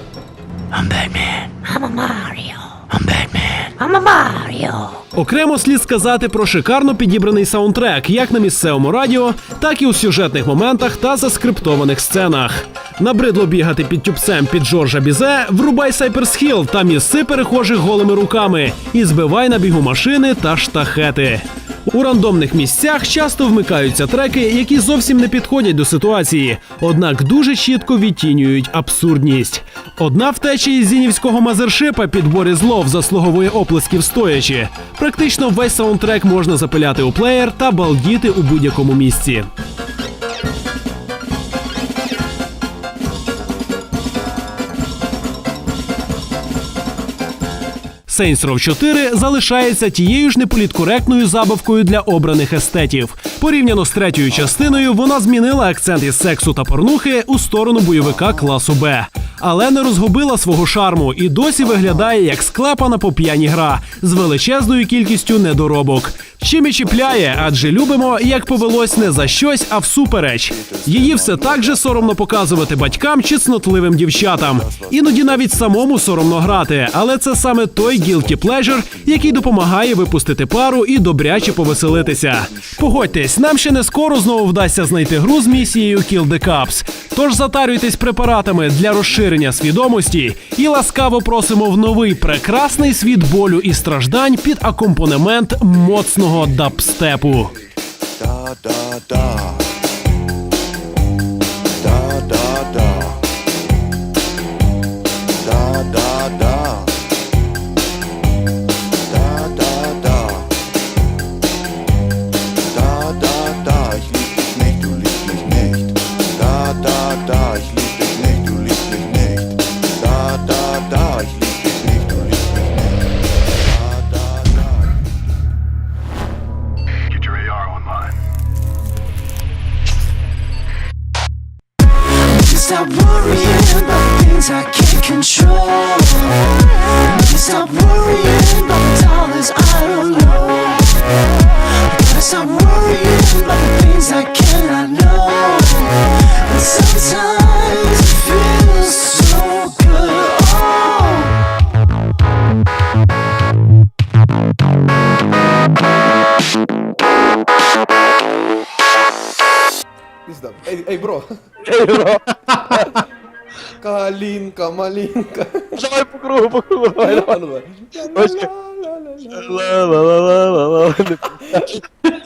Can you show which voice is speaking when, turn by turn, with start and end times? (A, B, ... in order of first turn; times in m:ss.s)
0:00.8-0:01.5 A
0:01.6-0:02.7 B
0:02.9-0:03.6 A
0:03.8-0:05.0 B
0:05.1-0:39.5 A
0:48.1-1:37.5 A
1:38.8-1:39.5 A
2:07.2-2:08.0 C
2:12.2-2:31.4 B
2:40.3-2:41.3 D
2:41.6-2:42.4 C
2:43.8-2:45.8 D
2:45.8-2:47.4 C
2:47.0-2:49.7 D
2:48.1-2:48.5 C
2:49.4-2:51.8 C